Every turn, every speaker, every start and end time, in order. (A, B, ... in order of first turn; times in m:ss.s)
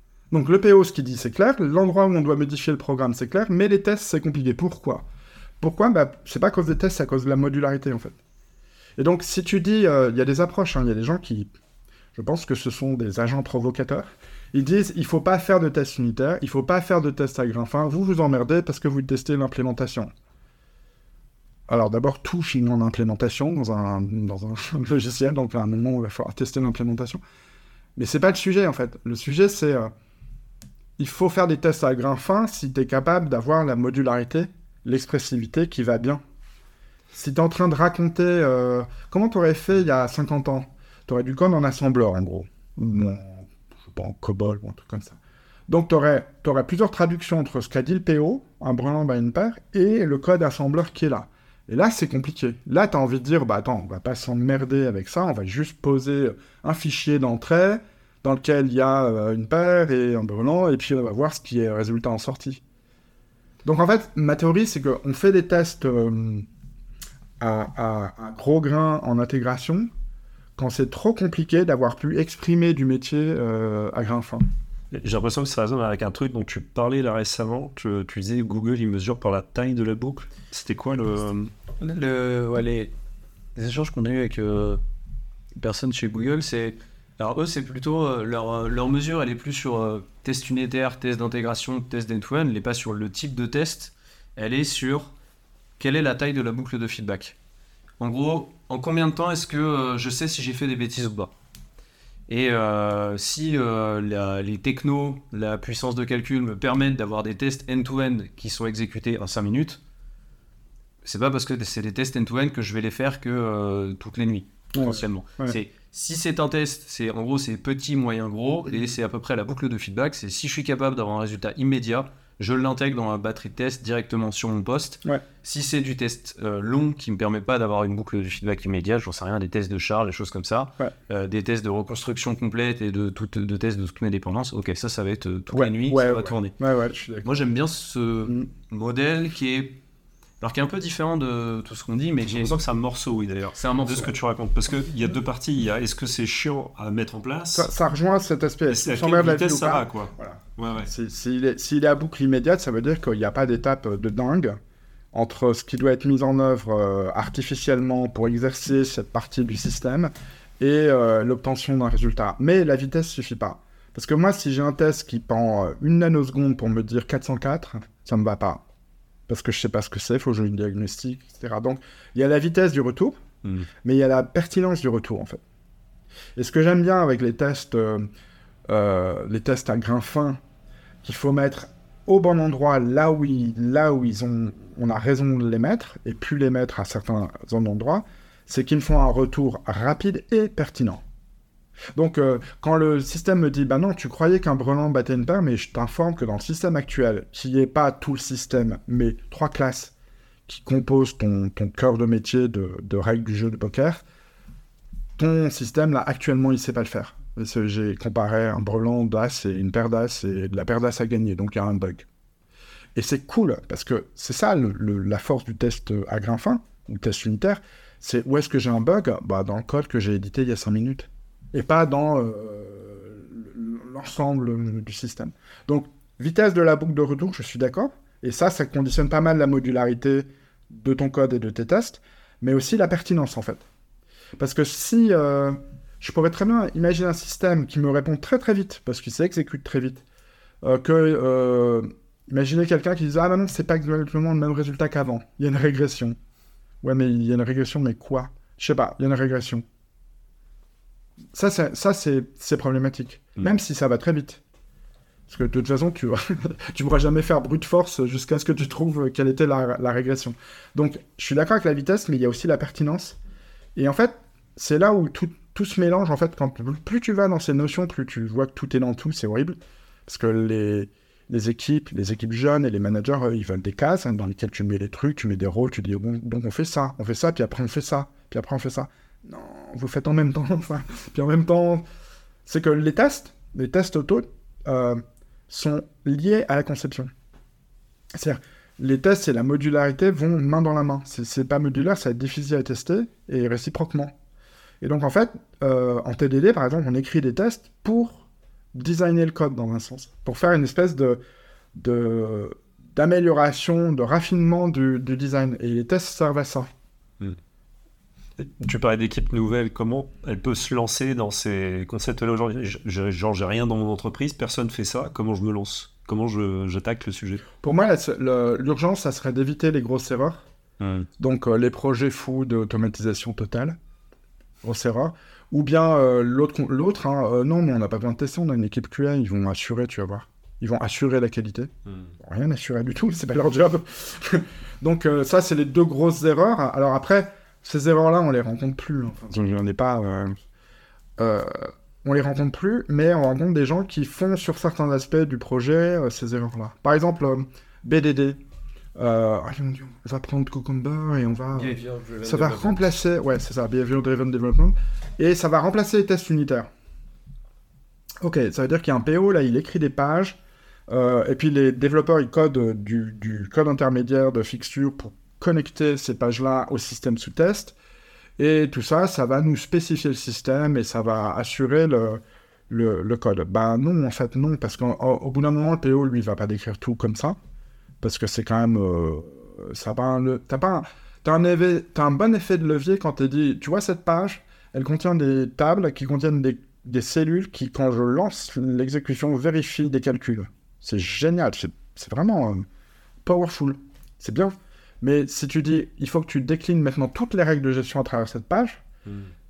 0:00.3-0:05.0 A
0:05.6-0:08.2 A
0:09.0-0:11.5 A
0:12.1-0:20.1 A
0:21.7-0:27.2 A
0:28.0-0:29.9 A
0:31.0-0:36.2 A
0:37.1-1:02.6 A
1:03.6-1:06.4 A
1:07.4-1:09.9 A
1:10.6-1:14.4 A
1:14.9-1:21.5 B
1:21.8-1:22.9 C
1:23.5-1:24.8 C
1:25.6-1:35.1 C
1:35.8-1:37.4 C
1:38.0-1:41.3 C
1:42.3-1:49.8 C
1:51.0-2:16.6 C
1:54.7-1:55.6 A
2:15.5-2:17.3 A
2:17.2-2:19.8 C
2:20.4-2:22.6 C
2:22.4-2:27.7 B
2:23.5-2:24.1 C
2:27.5-2:34.6 A
2:28.7-2:30.9 B
2:35.1-2:48.6 A
2:49.3-2:53.2 A
2:53.8-2:55.4 A
2:56.4-2:58.1 A
2:58.7-3:00.4 A
3:01.0-3:11.0 A
3:11.9-3:19.9 A
3:20.5-3:24.0 A
3:25.2-3:32.1 A
3:32.9-3:53.6 A
3:54.4-4:00.0 A
4:00.6-4:06.2 A
4:06.8-4:09.6 A
4:11.3-4:14.4 A
4:15.3-4:23.2 A
4:23.8-4:41.8 A
4:42.4-4:47.1 A
4:48.1-4:54.1 A
4:54.8-5:01.2 A
5:01.7-5:06.7 A
5:08.4-5:17.5 B
5:17.6-5:20.4 A
5:20.8-5:21.1 B
5:21.2-5:23.8 A
5:24.6-5:40.4 A
5:41.2-5:48.4 A
5:49.0-5:56.7 A
5:51.5-5:52.8 C
5:58.2-6:07.8 A
6:08.4-6:17.4 A
6:18.0-6:32.6 A
6:33.2-6:38.8 A
6:39.0-6:39.3 B